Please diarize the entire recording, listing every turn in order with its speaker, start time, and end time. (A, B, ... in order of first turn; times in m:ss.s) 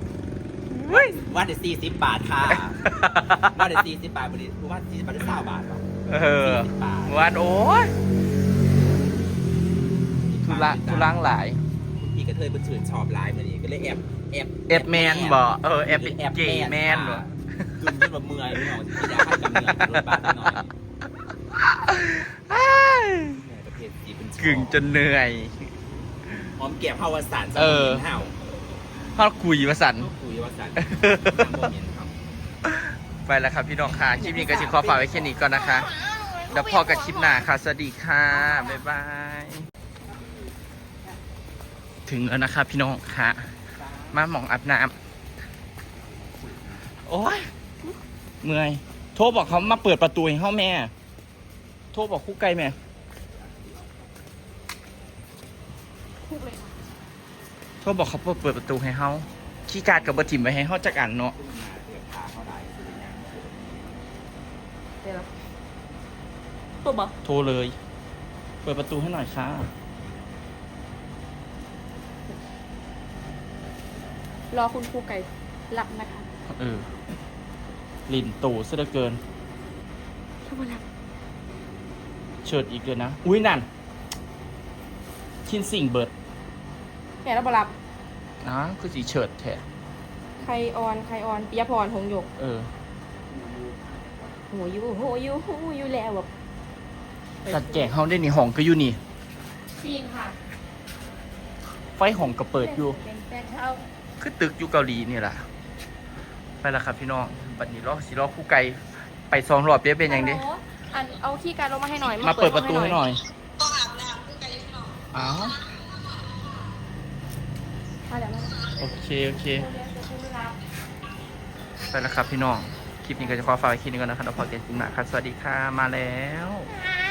0:00.8-0:01.2 A
0:00.9-0:05.8 B
0:02.5-0:03.5 A
0:06.1-0:07.9 A
0:06.4-0:07.2 B
0:10.2-0:11.2 B
0:10.4-0:11.6 A
0:12.0-0:20.7 B
0:14.7-0:17.8 A
0:18.6-0:20.6 A
0:21.6-0:23.4 A
0:23.3-0:24.8 B
0:24.4-0:25.7 A
0:26.6-0:28.4 B
0:27.6-0:28.0 A
0:29.0-0:30.1 A
0:30.0-0:32.2 B
0:30.8-0:31.5 A
0:32.7-0:35.9 A
0:34.2-0:35.4 B
0:36.2-0:37.4 C
0:36.5-0:39.7 A
0:42.1-0:43.5 A
0:43.8-0:44.2 B
0:44.1-0:45.0 A
0:46.0-0:46.9 B
0:47.1-0:47.5 A
0:48.4-0:50.9 A
0:51.9-0:52.8 A
0:53.4-0:54.1 B
0:56.3-0:56.7 C
0:57.8-1:01.4 A
0:59.8-1:00.5 B
1:01.4-1:04.1 B
1:05.0-1:05.3 C
1:06.8-1:07.2 C
1:07.2-1:07.8 A
1:08.6-1:09.7 A
1:14.5-1:16.3 C
1:16.5-1:16.9 A
1:18.1-1:19.2 A
1:20.5-1:20.8 C
1:22.4-1:23.7 A
1:25.5-1:26.1 A
1:27.2-1:27.8 C
1:28.4-1:29.6 A
1:30.4-1:32.3 C
1:32.4-1:32.7 A
1:33.3-1:34.4 B
1:34.5-1:36.3 C
1:37.5-1:39.0 A
1:39.8-1:40.4 C
1:42.0-1:43.0 A
1:42.5-1:43.8 C
1:44.2-1:45.4 A
1:46.6-1:50.4 A
1:50.1-1:53.0 C
1:52.2-1:53.2 A
1:55.1-1:55.6 A
1:58.1-1:58.6 C
1:58.8-1:59.7 A
1:59.5-2:00.6 C
2:01.9-2:06.7 A